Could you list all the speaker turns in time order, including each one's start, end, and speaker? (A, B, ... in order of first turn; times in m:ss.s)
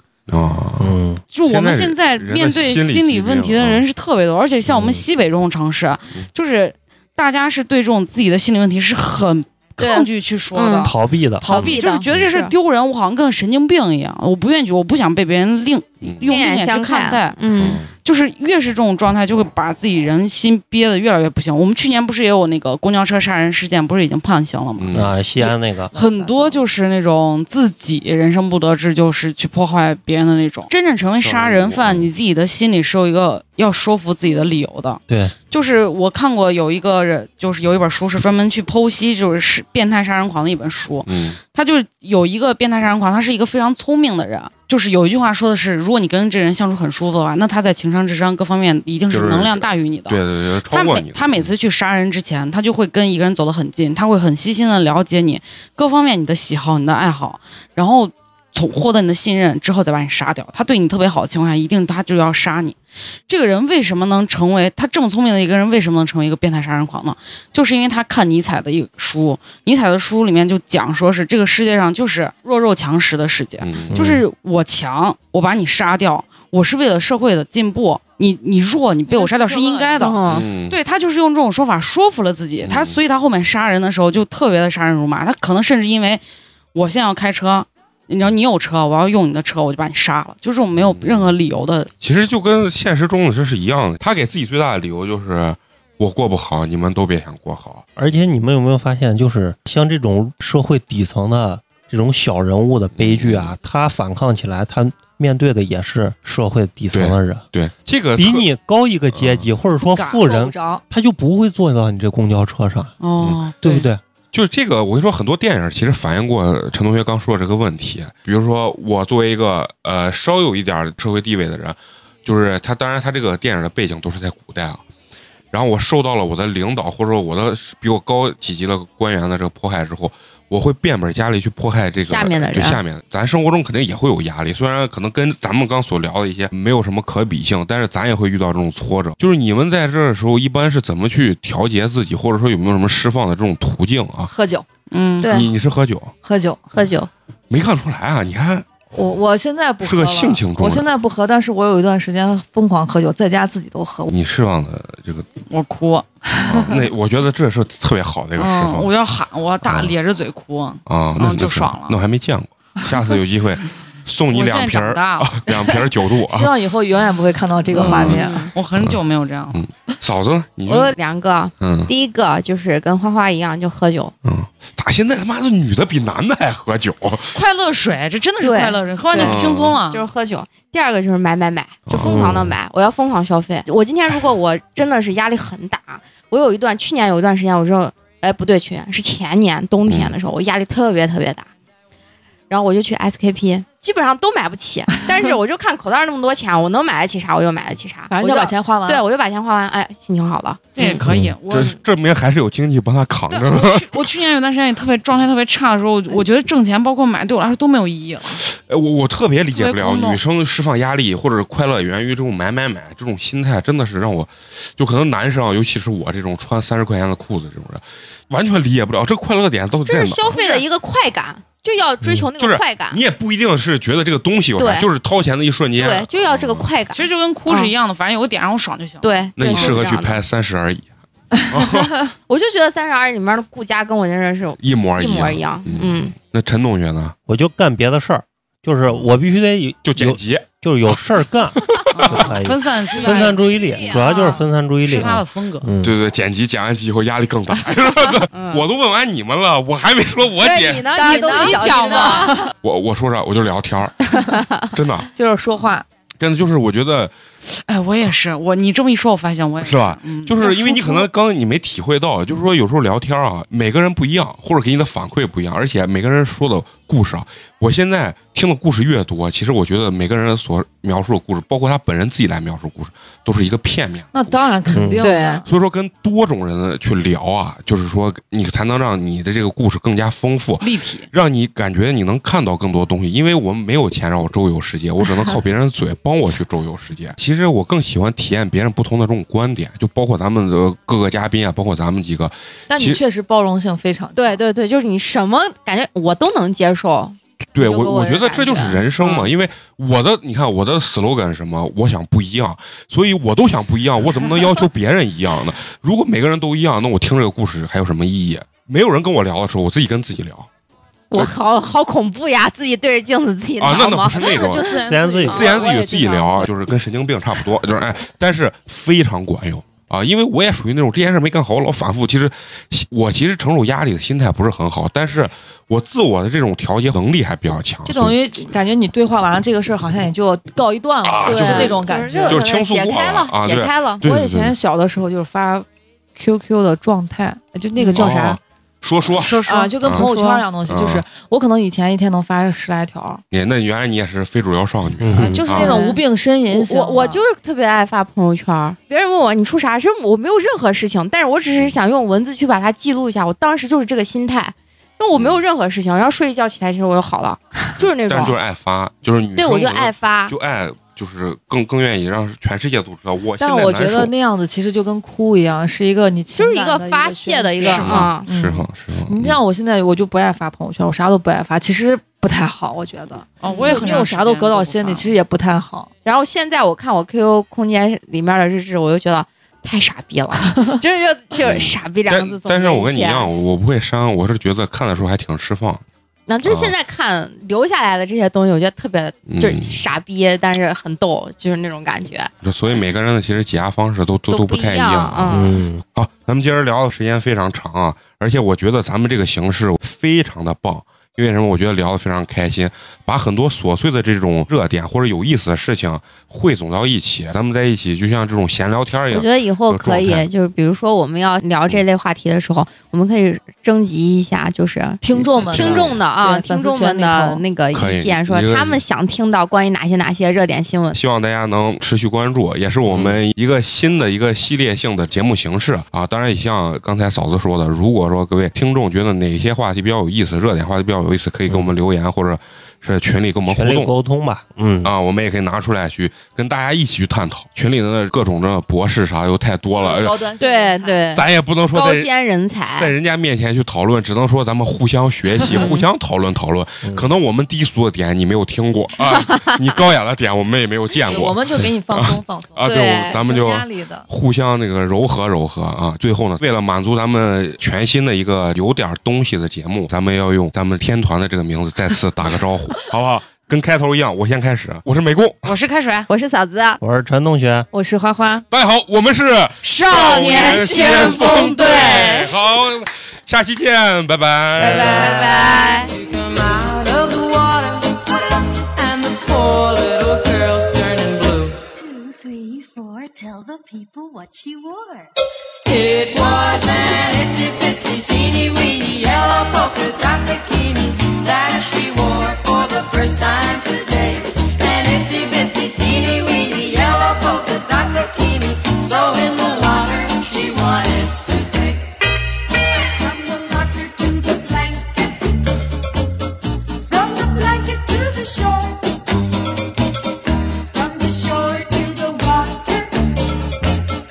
0:00.3-0:03.8 A
0:00.8-0:01.2 B
0:01.3-1:26.2 C
0:04.7-0:05.0 B
0:09.8-0:10.9 D
0:10.8-0:11.5 B
0:11.5-0:12.5 D
0:11.5-0:12.2 A
0:16.0-0:16.3 A
0:16.2-0:17.8 D
0:17.6-0:17.9 A
0:24.8-0:25.1 A
0:24.9-0:25.9 B
0:26.0-0:26.6 D
0:31.2-0:32.1 A
0:35.1-0:35.3 B
0:41.0-0:41.4 A
0:49.1-0:51.5 A
1:13.6-1:14.2 A
1:19.1-1:20.2 E
1:20.0-1:20.4 D
1:20.3-1:20.8 A
1:22.6-1:23.0 A
1:26.7-1:31.9 C
1:30.9-1:31.3 A
1:32.0-1:37.8 A
1:38.0-1:47.4 B
1:42.9-1:43.5 A
1:46.9-1:48.5 A
1:48.2-1:52.9 B
1:49.1-1:49.5 A
1:50.0-1:50.5 C
1:50.0-1:50.8 E
1:53.0-1:53.9 C
1:53.6-1:54.0 B
1:54.3-2:04.8 A
2:05.5-2:24.3 A
2:12.0-2:12.8 D
2:24.3-2:24.6 E
2:24.9-2:25.3 C
2:25.2-2:25.5 D
2:25.2-2:26.1 A
2:26.2-2:26.6 E
2:26.7-2:27.1 D
2:27.5-2:28.7 A
2:28.9-2:34.1 E
2:29.8-2:30.9 A
2:34.1-2:35.3 A
2:35.5-2:36.1 C
2:36.3-2:36.7 E
2:36.4-2:38.9 A
2:38.4-2:42.0 C
2:40.9-2:46.5 A
2:44.3-2:45.5 C
2:46.3-2:48.5 E
2:47.7-2:49.0 A
2:47.7-2:49.6 C
2:48.1-2:48.5 D
2:49.5-2:51.0 A
2:50.7-2:54.1 D
2:51.6-2:51.9 A
2:54.2-2:57.3 A
2:57.3-3:00.1 C
2:58.4-3:11.5 D
2:59.1-2:59.8 A
3:01.9-3:02.5 A
3:02.0-3:02.5 B
3:09.8-3:10.1 A
3:12.5-3:21.0 D
3:18.1-3:19.0 E
3:20.8-3:21.8 C
3:21.0-3:21.3 B
3:21.5-3:24.1 A
3:23.3-3:28.4 C
3:28.4-3:40.4 A
3:29.5-3:30.2 C
3:39.8-3:43.0 D
3:40.3-3:40.6 C
3:42.4-3:46.7 A
3:44.6-3:44.9 D
3:45.8-3:47.7 D
3:46.9-3:49.7 C
3:49.0-3:50.2 D
3:49.4-3:52.0 A
3:52.3-3:56.1 D
3:54.6-3:57.1 A
3:57.3-4:06.0 B
3:59.8-4:01.0 A
4:01.5-4:02.4 A
4:01.9-4:05.7 C
4:02.9-4:04.3 D
4:05.8-4:15.1 A
4:08.3-4:08.6 D
4:10.4-4:12.4 D
4:10.9-4:12.5 E
4:14.1-4:14.5 D
4:15.1-4:15.8 E
4:16.2-4:17.1 A
4:17.4-4:21.0 C
4:19.6-4:34.6 A
4:34.1-4:35.4 E
4:34.7-4:35.1 B
4:35.0-4:35.4 D
4:35.4-4:53.0 A
4:40.6-4:41.1 C
4:52.7-4:54.4 E
4:54.2-4:59.1 D
4:57.5-5:10.5 A
5:11.1-5:14.7 D
5:13.6-5:28.2 A
5:14.0-5:16.5 E
5:14.8-5:15.5 B
5:27.8-5:32.4 E
5:31.0-5:34.5 A
5:31.2-5:34.0 D
5:34.0-5:38.4 E
5:38.0-5:40.1 A
5:39.2-5:39.7 C
5:39.4-5:43.2 E
5:39.9-5:40.4 D
5:40.7-5:41.0 A
5:43.3-5:45.8 A
5:45.0-5:45.6 B
5:45.2-5:47.2 E
5:45.6-5:58.4 D
5:55.1-5:55.4 A
5:57.8-6:04.1 A
5:59.4-6:00.3 D
6:03.4-6:15.9 E
6:06.4-6:08.3 D
6:07.8-6:09.4 A
6:13.4-6:15.1 C
6:13.5-6:14.0 D
6:16.0-6:23.3 D
6:21.4-6:25.8 A
6:26.3-6:32.3 D
6:26.4-6:26.7 A
6:29.3-6:29.8 A
6:32.4-6:50.3 A
6:34.3-6:35.6 D
6:35.3-6:35.8 B
6:49.1-7:01.0 D
6:55.0-6:57.4 E
6:55.4-6:56.0 A
6:57.7-6:58.8 A
7:00.9-7:13.9 A
7:13.4-7:14.9 B
7:14.8-7:20.2 A
7:19.8-7:21.0 E
7:20.4-7:22.9 D
7:21.1-7:22.1 A
7:22.8-7:45.5 A
7:25.4-7:25.9 D
7:26.8-7:27.1 B
7:31.0-7:34.0 E
7:32.6-7:33.2 D
7:45.4-7:46.1 C
7:46.1-7:46.8 D
7:46.8-7:47.7 B
7:47.7-7:48.4 E
7:48.5-7:55.2 A
7:49.6-7:52.3 C
7:50.0-7:52.2 D
7:51.2-7:52.0 E
7:54.6-7:55.4 E
7:54.6-7:55.9 D
7:55.2-8:01.6 F
8:01.7-8:05.1 G
8:05.6-8:21.8 F
8:22.8-8:25.3 G
8:26.9-8:29.0 G
8:30.7-8:33.0 G